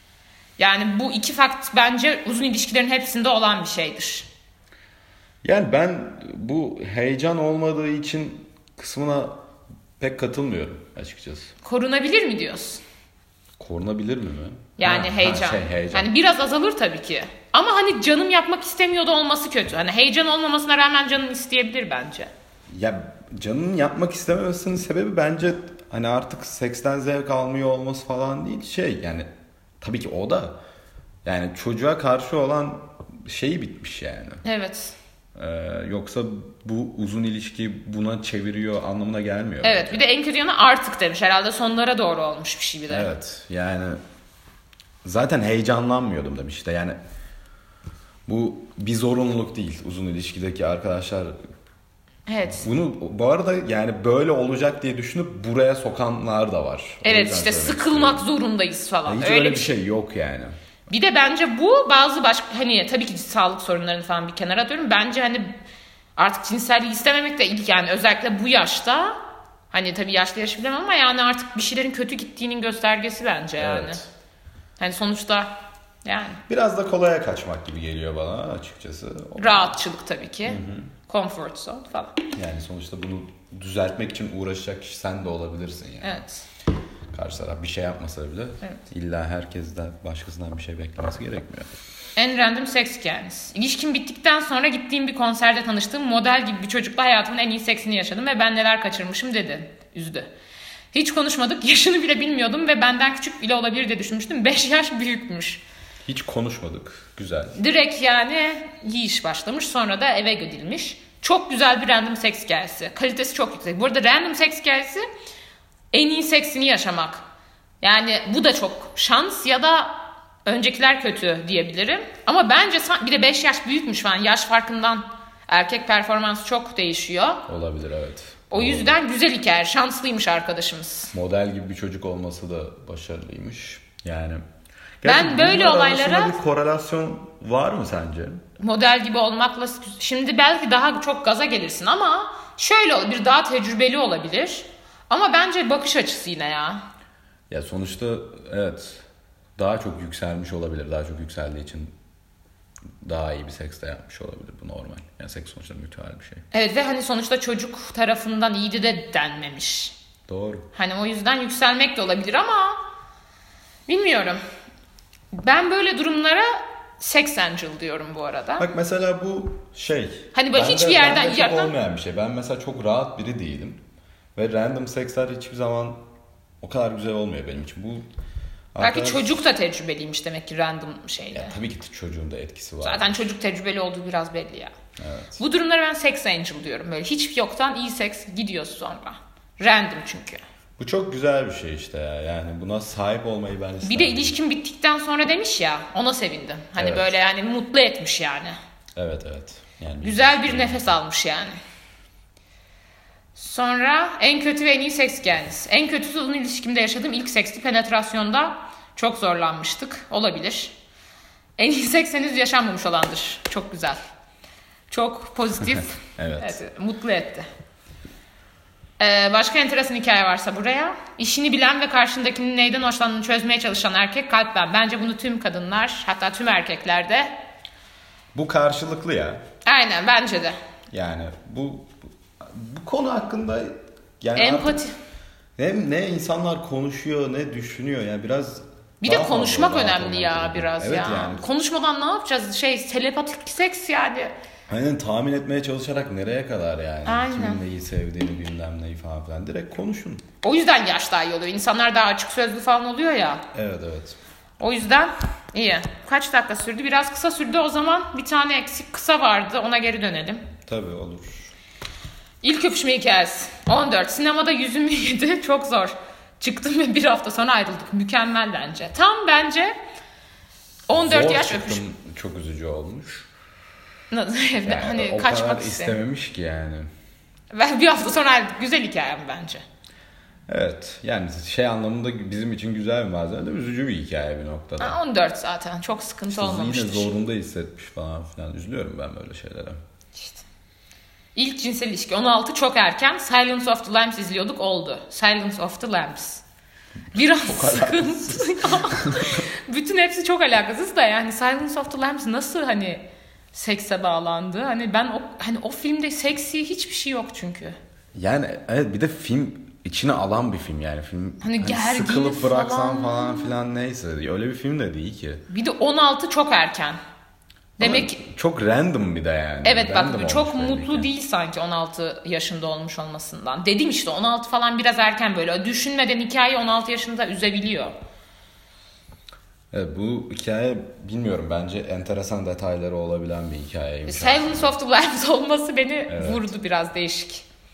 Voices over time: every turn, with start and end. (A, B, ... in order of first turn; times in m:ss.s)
0:00.6-0:04.3 A
0:05.4-0:09.4 B
0:10.0-0:11.5 B
0:11.6-0:12.8 A
0:13.6-0:16.1 B
0:14.8-0:22.3 A
0:22.7-0:29.3 B
0:29.8-0:30.6 B
0:31.2-0:34.4 B
0:34.4-0:34.9 A
0:35.4-0:40.0 B
0:39.6-0:43.1 A
0:42.9-0:44.0 B
0:45.0-0:47.0 B
0:48.3-0:51.3 B
0:52.3-0:52.7 A
0:52.6-0:58.3 B
0:57.0-0:59.7 A
0:59.0-1:00.5 B
1:00.9-1:05.5 A
1:06.2-1:09.2 A
1:09.7-1:14.0 A
1:13.6-1:14.0 B
1:14.8-1:16.4 A
1:16.5-1:19.7 B
1:19.4-1:22.2 A
1:20.4-1:20.9 B
1:22.3-1:26.2 B
1:26.0-1:26.4 A
1:27.1-1:31.8 B
1:32.2-1:40.3 A
1:40.9-1:45.6 A
1:46.0-1:47.6 B
1:47.5-1:55.0 A
1:55.9-1:57.2 A
1:57.8-2:07.4 A
2:07.5-2:09.0 B
2:08.5-2:11.1 A
2:11.1-2:14.4 B
2:15.0-2:18.4 B
2:15.0-2:16.4 A
2:18.6-2:26.8 A
2:27.5-2:29.0 B
2:29.6-2:31.9 B
2:33.0-2:36.4 B
2:36.5-2:39.9 A
2:40.3-2:40.7 B
2:40.7-2:42.8 A
2:43.9-2:44.4 A
2:45.3-2:48.7 A
2:48.6-2:53.8 B
2:50.3-2:51.7 A
2:54.3-2:56.0 B
2:56.6-2:58.0 B
2:58.7-2:59.4 B
2:58.8-3:01.6 A
3:01.3-3:03.3 B
3:02.8-3:04.7 A
3:05.0-3:05.4 B
3:05.4-3:10.4 A
3:10.8-3:14.3 B
3:13.8-3:18.6 A
3:16.8-3:17.1 B
3:19.0-3:20.9 B
3:20.0-3:21.6 A
3:23.4-3:30.7 A
3:31.6-3:34.0 A
3:34.9-3:37.4 A
3:36.2-3:36.6 B
3:39.0-3:47.3 A
3:48.3-3:49.4 B
3:49.6-3:50.6 A
3:50.9-3:54.8 B
3:54.4-3:54.9 A
3:55.6-4:01.4 B
3:59.0-4:04.3 A
4:04.7-4:10.2 B
4:07.0-4:07.6 A
4:10.4-4:13.4 A
4:13.5-4:14.2 B
4:14.6-4:20.5 A
4:20.7-4:21.5 B
4:22.4-4:29.7 A
4:30.9-4:31.8 A
4:30.9-4:33.3 B
4:34.1-4:36.0 A
4:34.6-4:36.9 B
4:37.5-4:39.6 A
4:40.5-4:45.0 B
4:44.8-4:47.1 A
4:46.3-4:49.8 B
4:50.1-4:50.4 A
4:51.3-4:56.4 A
4:57.1-5:07.8 A
4:57.3-4:59.3 B
5:08.1-5:15.4 B
5:11.4-5:13.6 A
5:15.5-5:17.0 A
5:17.8-5:18.2 A
5:17.8-5:21.1 B
5:19.6-5:27.9 A
5:29.7-5:34.8 B
5:34.1-5:37.4 A
5:36.1-5:36.5 B